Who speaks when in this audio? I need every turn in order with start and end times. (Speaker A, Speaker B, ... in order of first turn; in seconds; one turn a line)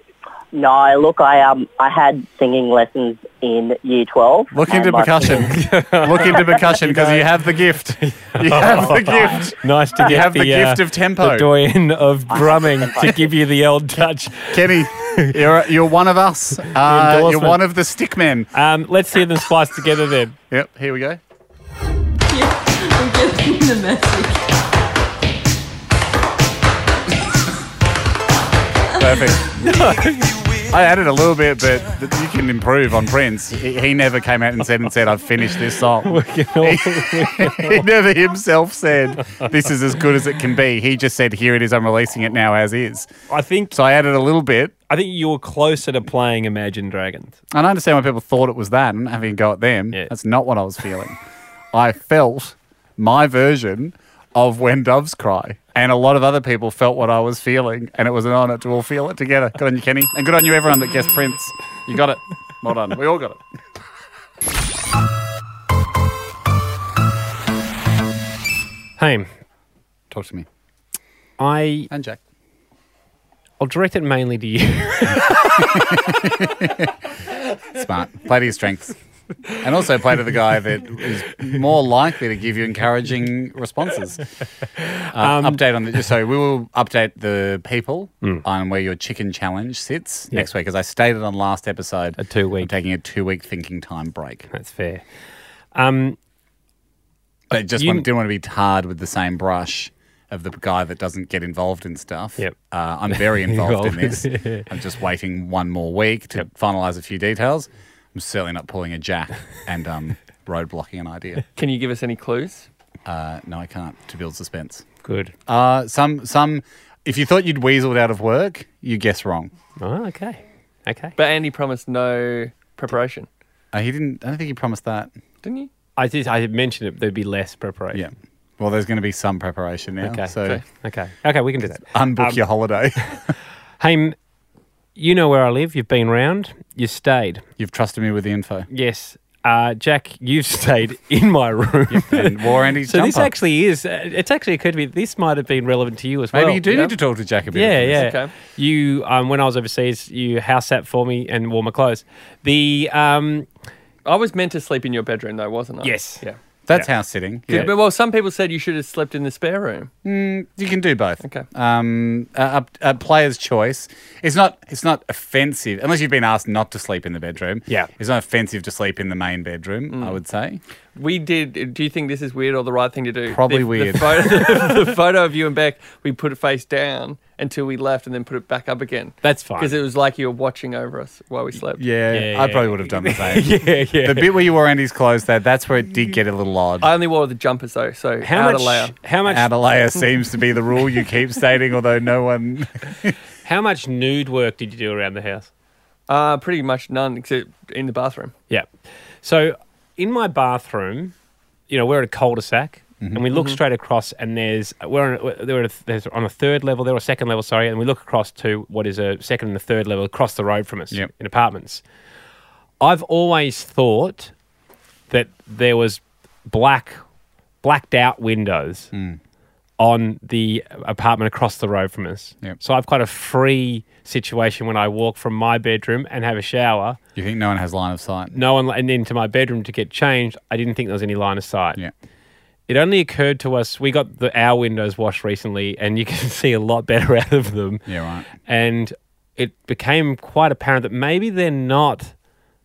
Speaker A: 0.5-5.5
Speaker B: 4.5-11.5
Speaker C: 5.2-7.3
Speaker C: 8.0-15.4
Speaker A: 12.3-13.3
Speaker B: 14.5-18.5
Speaker C: 16.7-17.6
Speaker C: 18.5-20.4
Speaker B: 20.5-21.2
Speaker D: 22.3-24.4
Speaker B: 29.0-29.5
Speaker D: 29.0-29.3
Speaker C: 29.6-30.3
Speaker B: 30.7-43.1
Speaker C: 36.0-37.9
Speaker C: 43.3-43.8
Speaker B: 43.7-44.7
Speaker C: 44.9-47.4
Speaker B: 47.5-51.2
Speaker B: 51.7-63.4
Speaker C: 69.0-69.3
Speaker B: 70.1-70.5
Speaker C: 71.4-71.9
Speaker B: 71.9-72.2
Speaker C: 73.6-75.7
Speaker B: 75.6-76.9
Speaker B: 77.7-79.0
Speaker B: 79.6-84.2
Speaker C: 84.8-85.6
Speaker B: 85.1-94.5
Speaker C: 92.2-92.7
Speaker C: 94.5-95.0
Speaker C: 95.7-96.2
Speaker B: 97.5-111.5
Speaker C: 97.8-98.1
Speaker C: 103.1-104.7
Speaker E: 111.5-112.7
Speaker B: 113.0-114.8
Speaker C: 115.0-115.3
Speaker B: 115.5-119.5
Speaker C: 119.8-121.1
Speaker E: 121.2-123.3
Speaker B: 123.7-125.1
Speaker E: 125.4-125.7
Speaker C: 126.0-128.0
Speaker B: 127.9-130.6
Speaker C: 130.0-132.4
Speaker B: 131.7-133.2
Speaker C: 133.8-134.2
Speaker C: 134.9-137.4
Speaker B: 137.6-138.7
Speaker C: 138.7-146.7
Speaker B: 141.9-143.3
Speaker B: 146.3-148.0
Speaker C: 147.5-153.5
Speaker E: 147.9-148.3
Speaker E: 154.0-156.4
Speaker C: 155.8-156.8
Speaker B: 156.7-157.7
Speaker E: 157.5-159.9
Speaker B: 160.0-170.6
Speaker E: 169.9-170.2
Speaker E: 170.9-181.8
Speaker B: 173.3-174.2
Speaker C: 174.1-174.9
Speaker C: 179.2-179.7
Speaker B: 181.8-186.9
Speaker C: 182.1-184.3
Speaker E: 186.8-189.0
Speaker C: 188.2-189.5
Speaker B: 189.2-193.1
Speaker C: 193.4-195.5
Speaker E: 196.1-198.3
Speaker C: 198.5-201.1
Speaker C: 201.7-211.8
Speaker B: 203.0-203.2
Speaker C: 212.8-214.3
Speaker C: 215.1-217.0
Speaker C: 217.6-218.9
Speaker B: 218.9-219.2
Speaker C: 219.8-227.0
Speaker B: 227.1-228.3
Speaker C: 228.3-231.8
Speaker C: 232.7-242.1
Speaker B: 237.9-238.3